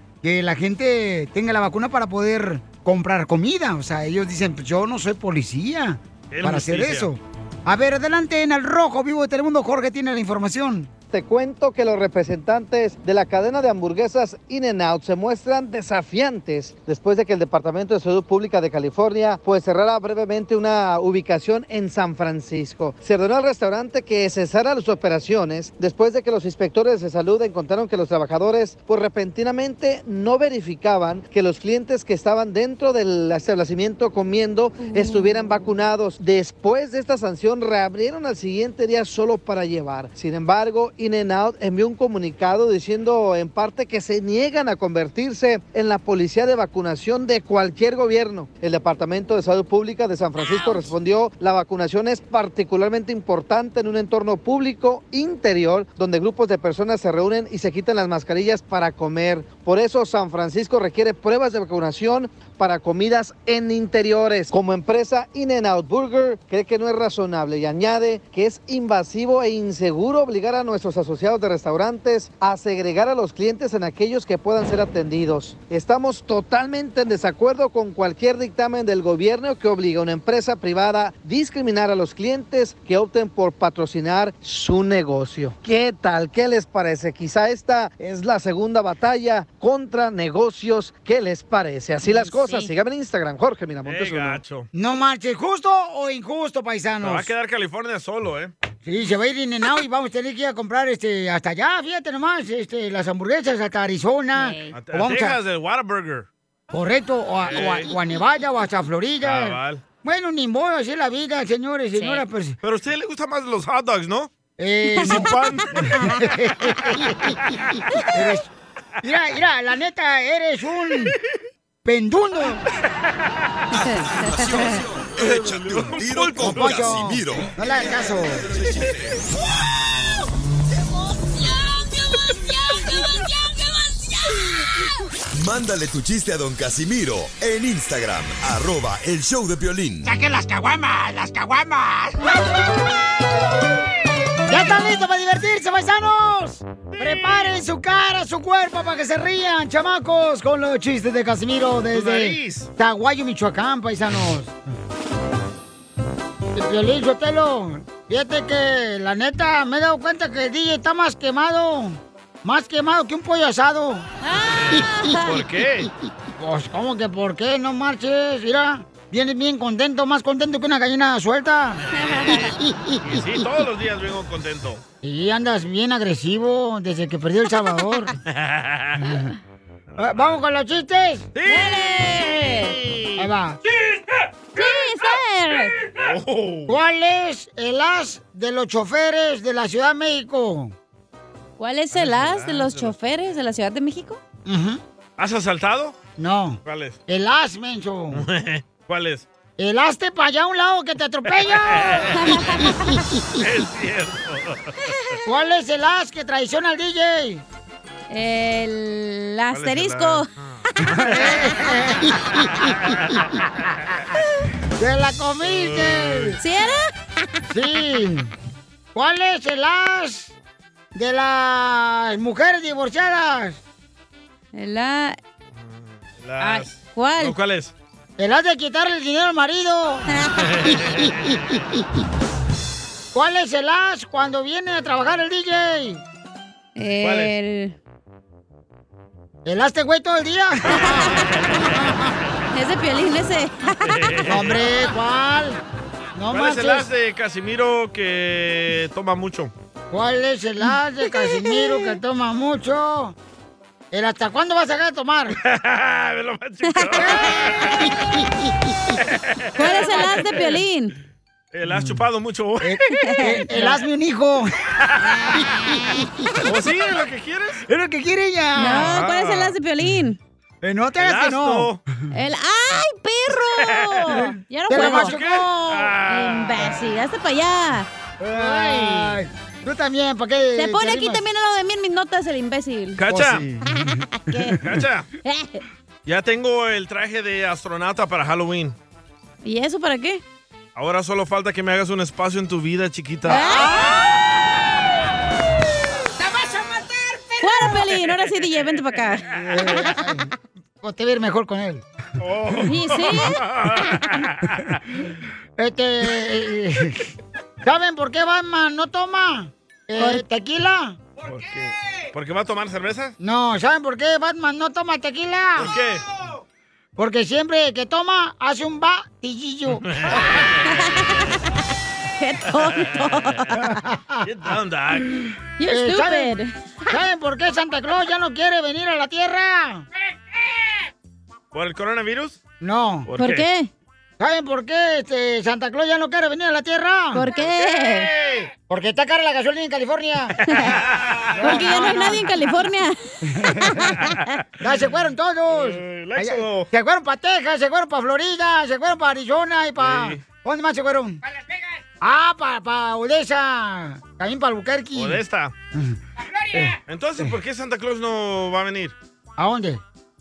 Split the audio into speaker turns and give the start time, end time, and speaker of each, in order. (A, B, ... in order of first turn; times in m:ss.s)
0:00.2-0:10.9 A
0:06.3-0:07.1 B
0:11.1-1:34.4 C
0:50.4-0:50.8 D
1:32.0-1:32.7 D
1:33.8-1:34.7 B
1:34.7-1:37.3 A
1:37.0-1:38.5 B
1:38.8-1:45.4 A
1:44.4-1:44.7 D
1:44.7-1:46.3 B
1:46.7-1:52.6 A
1:47.5-1:47.9 B
1:49.2-1:49.8 B
1:52.0-1:52.2 D
1:52.6-1:54.3 B
1:54.6-1:57.4 A
1:55.0-1:55.8 B
1:58.1-1:58.5 A
1:59.0-2:01.2 A
2:01.8-2:02.6 A
2:03.8-2:04.8 D
2:04.1-2:09.2 E
2:05.1-2:07.4 B
2:06.4-2:08.5 A
2:15.3-2:20.1 E
2:20.0-2:22.2 F
2:24.5-2:34.6 A
2:26.9-2:27.6 B
2:31.9-2:32.7 B
2:36.6-2:44.1 A
2:44.2-2:45.4 D
2:44.5-2:45.9 B
2:46.4-2:51.8 A
2:52.0-2:52.4 B
2:52.0-2:52.5 D
2:53.0-2:54.8 B
2:55.0-2:58.1 A
2:58.3-2:59.0 B
2:59.9-3:00.4 B
3:00.0-3:01.3 A
3:01.4-3:03.3 B
3:01.5-3:02.8 D
3:03.2-3:03.6 A
3:04.6-3:05.8 D
3:05.9-3:06.7 B
3:06.7-3:10.8 A
3:11.6-3:14.2 D
3:11.9-3:13.0 B
3:14.5-3:14.8 A
3:15.2-3:16.0 B
3:16.2-3:18.2 A
3:16.6-3:17.0 B
3:18.1-3:19.3 B
3:19.6-3:22.1 A
3:21.4-3:22.7 B
3:22.2-3:22.9 D
3:23.4-3:25.0 B
3:25.3-3:27.4 A
3:28.1-3:30.3 D
3:29.5-3:31.4 B
3:31.0-3:32.1 A
3:32.5-3:34.0 B
3:34.8-3:36.4 A
3:35.4-3:36.4 B
3:36.4-3:36.8 D
3:37.5-3:38.3 A
3:39.0-3:40.3 A
3:40.9-3:43.6 A
3:44.5-3:45.2 D
3:45.6-3:47.7 B
3:46.4-3:47.4 D
3:48.2-3:50.1 A
3:50.5-3:51.4 B
3:53.1-3:56.0 A
3:56.8-3:57.8 D
3:57.0-3:57.3 B
3:59.4-4:01.2 A
4:00.7-4:01.7 B
4:02.5-4:04.0 D
4:03.8-4:04.6 B
4:04.2-4:05.6 A
4:06.2-4:06.9 A
4:06.3-4:09.5 B
4:09.9-4:13.2 A
4:11.1-4:12.0 D
4:13.9-4:15.4 A
4:15.4-4:17.9 B
4:17.0-4:17.7 A
4:19.6-4:20.6 B
4:19.6-4:20.9 D
4:21.5-4:23.2 B
4:21.7-4:22.0 A
4:22.6-4:24.5 A
4:23.0-4:23.5 D
4:24.8-4:25.4 B
4:26.4-4:27.6 B
4:27.7-4:28.9 A
4:28.6-4:30.2 D
4:28.6-4:29.6 B
4:30.6-4:31.7 A
4:31.0-4:31.8 B
4:32.1-4:37.9 D
4:33.5-4:36.9 B
4:34.7-4:35.4 A
4:38.2-4:41.2 A
4:38.4-4:39.2 B
4:40.6-4:43.0 D
4:43.0-4:43.5 B
4:43.1-4:43.6 A
4:44.2-4:44.6 D
4:44.6-4:45.1 B
4:45.2-4:45.6 D
4:46.1-4:48.8 B
4:49.4-4:50.2 D
4:50.8-4:53.6 B
4:53.3-4:53.9 D
4:57.4-4:59.9 D
4:59.4-5:00.3 A
5:00.8-5:01.8 A
5:02.2-5:04.8 B
5:02.7-5:03.4 D
5:05.6-5:07.1 A
5:07.6-5:11.0 A
5:10.0-5:10.2 D
5:11.2-5:13.2 B
5:13.2-5:15.7 A
5:15.6-5:16.0 B
5:17.0-5:19.9 A
5:19.9-5:20.9 B
5:20.7-5:21.4 D
5:22.2-5:23.5 D
5:22.6-5:23.1 B
5:23.6-5:24.2 A
5:24.2-5:25.2 B
5:25.6-5:26.6 D
5:25.7-5:26.3 A
5:26.9-5:29.9 A
5:31.5-5:32.4 B
5:32.6-5:33.1 A
5:33.1-5:33.5 B
5:33.2-5:33.7 D
5:34.2-5:37.3 A
5:37.1-5:38.1 D
5:37.4-5:38.5 B
5:38.7-5:40.5 A
5:40.5-5:40.7 D
5:40.8-5:42.0 B
5:41.4-5:42.2 A
5:41.4-5:44.3 D
5:43.4-5:43.8 A
5:44.6-5:51.2 A
5:45.5-5:46.7 B
5:49.8-5:50.2 B
5:52.0-5:55.2 A
5:54.9-5:55.5 B
5:56.9-5:59.0 B
5:59.4-5:59.8 A